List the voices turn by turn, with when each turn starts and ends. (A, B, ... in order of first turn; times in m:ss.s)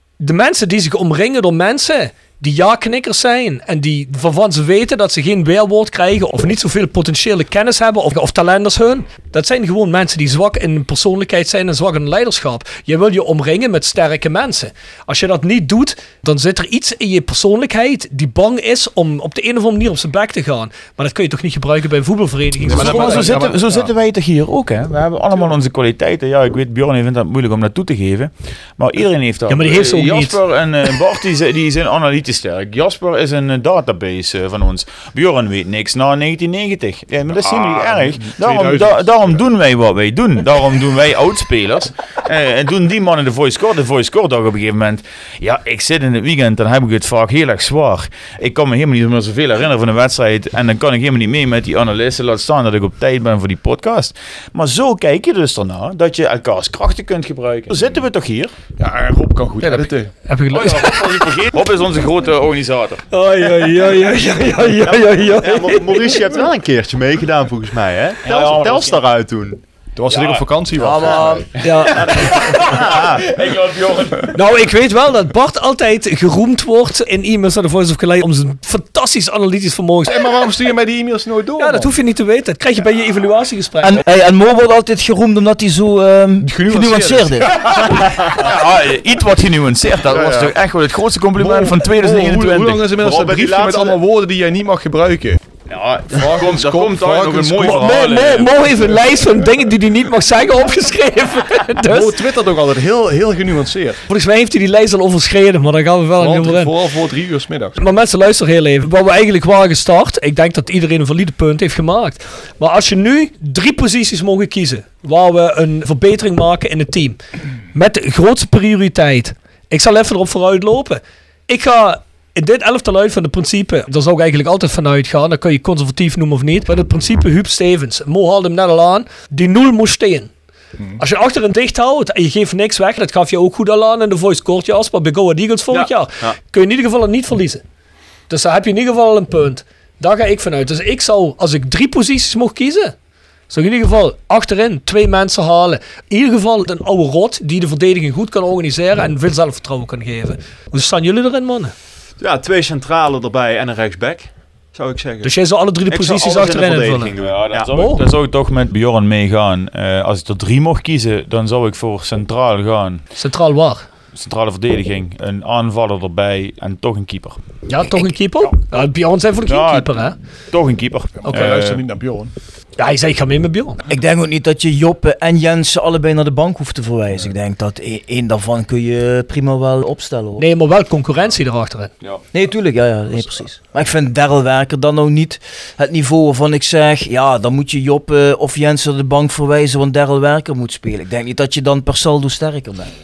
0:00.2-0:23.3 A
0:22.6-0:23.9 B
0:22.7-0:58.5 C
0:29.5-0:30.4 A
0:37.3-0:39.4 B
0:58.8-1:00.1 B
0:59.6-1:01.3 A
1:00.5-1:03.0 C
1:03.1-1:06.2 A
1:04.8-1:10.5 D
1:08.2-1:09.0 C
1:10.0-1:11.4 B
1:10.8-1:11.5 E
1:11.6-1:12.7 A
1:11.9-1:13.3 D
1:11.9-1:14.4 C
1:14.3-1:20.2 A
1:20.0-1:21.9 B
1:21.6-1:24.0 A
1:23.8-1:27.7 E
1:26.4-1:28.0 B
1:27.6-1:32.9 C
1:30.1-1:30.5 B
1:31.4-1:35.4 B
1:32.9-1:34.0 D
1:35.7-1:38.9 C
1:36.1-1:37.9 B
1:37.6-1:42.1 A
1:41.8-1:44.0 B
1:44.1-1:46.7 A
1:46.2-1:47.8 B
1:47.8-1:57.2 A
1:57.7-2:10.3 A
2:11.0-2:17.6 A
2:15.7-2:16.4 D
2:18.3-2:22.9 A
2:23.5-2:31.7 A
2:32.2-2:35.3 D
2:35.2-2:37.1 A
2:35.9-2:37.7 D
2:37.1-2:43.0 C
2:37.7-2:38.0 A
2:43.2-2:43.9 A
2:44.1-2:47.4 C
2:47.7-2:50.2 A
2:49.4-2:51.8 C
2:51.2-2:52.3 B
2:51.2-2:51.5 A
2:52.8-2:53.8 A
2:53.9-3:00.4 E
3:00.4-3:01.9 A
3:02.3-3:12.9 E